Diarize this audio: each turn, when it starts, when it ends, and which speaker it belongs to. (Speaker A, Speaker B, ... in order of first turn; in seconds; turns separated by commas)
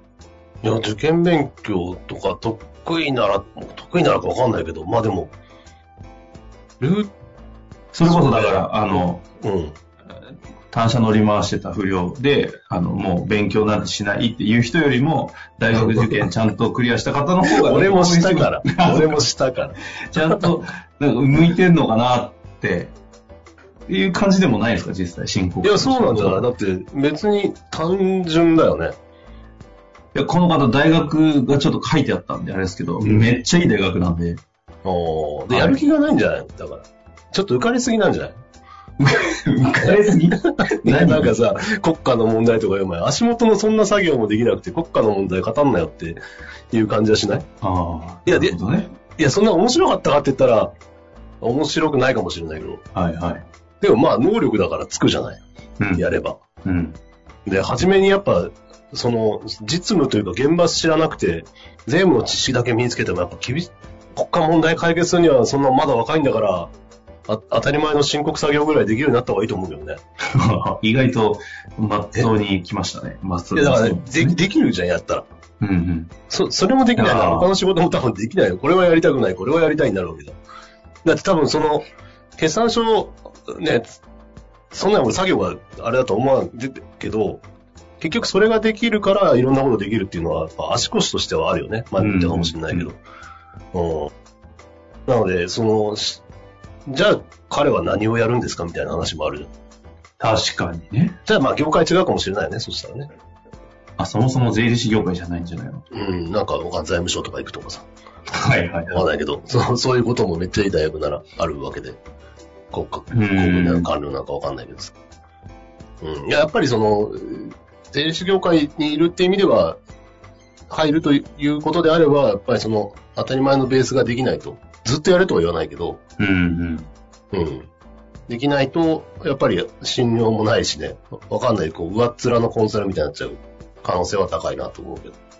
Speaker A: 0.6-5.3, Speaker A: 6.8-7.1, Speaker B: 7.9-9.2, Speaker A: 8.0-9.7, Speaker B: 10.7-19.2, Speaker A: 15.8-16.1, Speaker A: 17.4-20.4, Speaker B: 20.1-22.9, Speaker B: 23.9-26.4, Speaker A: 25.6-28.9, Speaker B: 30.1-34.4, Speaker A: 33.0-33.3, Speaker A: 34.8-38.4, Speaker B: 35.5-35.8, Speaker B: 39.0-41.4, Speaker A: 39.8-46.2, Speaker A: 46.7-47.5, Speaker B: 47.6-48.9, Speaker A: 48.2-48.5, Speaker A: 49.1-50.7, Speaker A: 51.4-52.8, Speaker B: 52.9-53.5, Speaker A: 53.8-55.4, Speaker B: 55.8-56.1, Speaker A: 55.9-56.4, Speaker B: 56.6-57.0, Speaker A: 57.5-66.7, Speaker A: 67.3-70.0, Speaker B: 70.3-74.4, Speaker A: 73.5-75.3, Speaker B: 75.6-76.1, Speaker A: 76.3-80.3, Speaker B: 77.0-77.5, Speaker A: 81.0-81.8, Speaker A: 82.4-84.0, Speaker A: 84.7-87.4, Speaker A: 88.0-93.0, Speaker B: 92.0-92.9, Speaker A: 93.7-94.1, Speaker A: 95.1-96.2, Speaker A: 96.9-99.5, Speaker B: 100.2-101.2, Speaker A: 101.2-103.1, Speaker B: 104.0-105.8, Speaker A: 105.9-107.8, Speaker B: 108.3-109.0, Speaker A: 108.9-112.0, Speaker A: 112.7-114.9, Speaker B: 113.1-113.9, Speaker A: 116.0-119.8, Speaker A: 120.7-126.0, Speaker B: 126.2-126.9, Speaker A: 127.3-127.7, Speaker A: 128.3-135.2